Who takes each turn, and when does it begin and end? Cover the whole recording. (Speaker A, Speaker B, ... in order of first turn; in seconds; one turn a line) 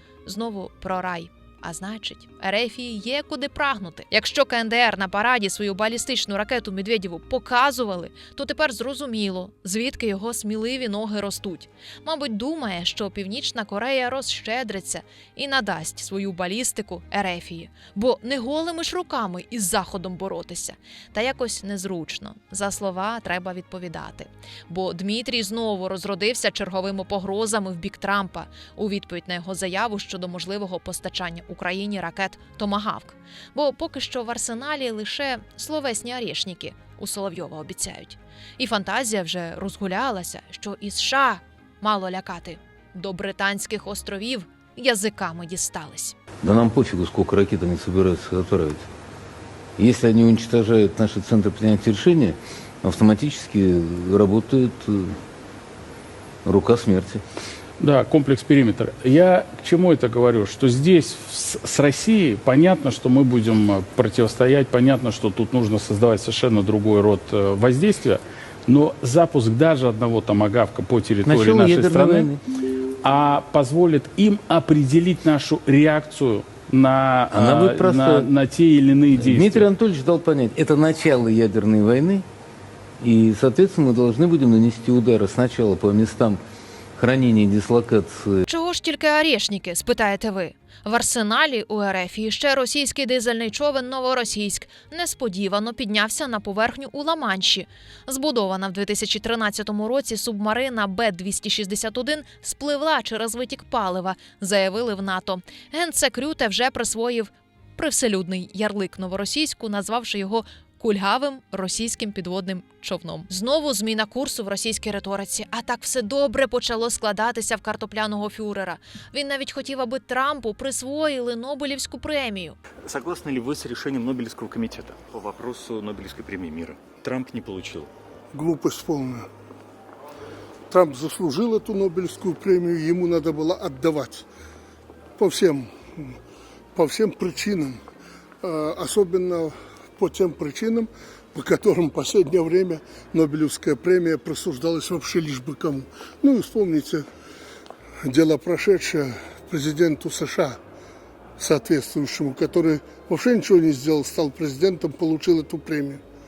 Speaker A: 0.2-46.2
Speaker B: 46.4-48.9
Speaker B: 49.8-55.2
Speaker B: 56.5-57.2
Speaker C: 57.8-72.4
Speaker B: 71.2-72.4
Speaker C: 73.0-79.7
Speaker B: 77.3-78.3
Speaker B: 79.1-82.3
Speaker B: 83.0-86.4
Speaker B: 87.0-88.4
Speaker A: 88.5-122.6
Speaker D: 122.8-127.9
Speaker E: 128.3-129.3
Speaker E: 130.7-134.3
Speaker E: 135.2-136.2
Speaker E: 136.8-137.8
Speaker E: 138.4-147.1
Speaker E: 148.0-150.6
Speaker E: 151.4-156.0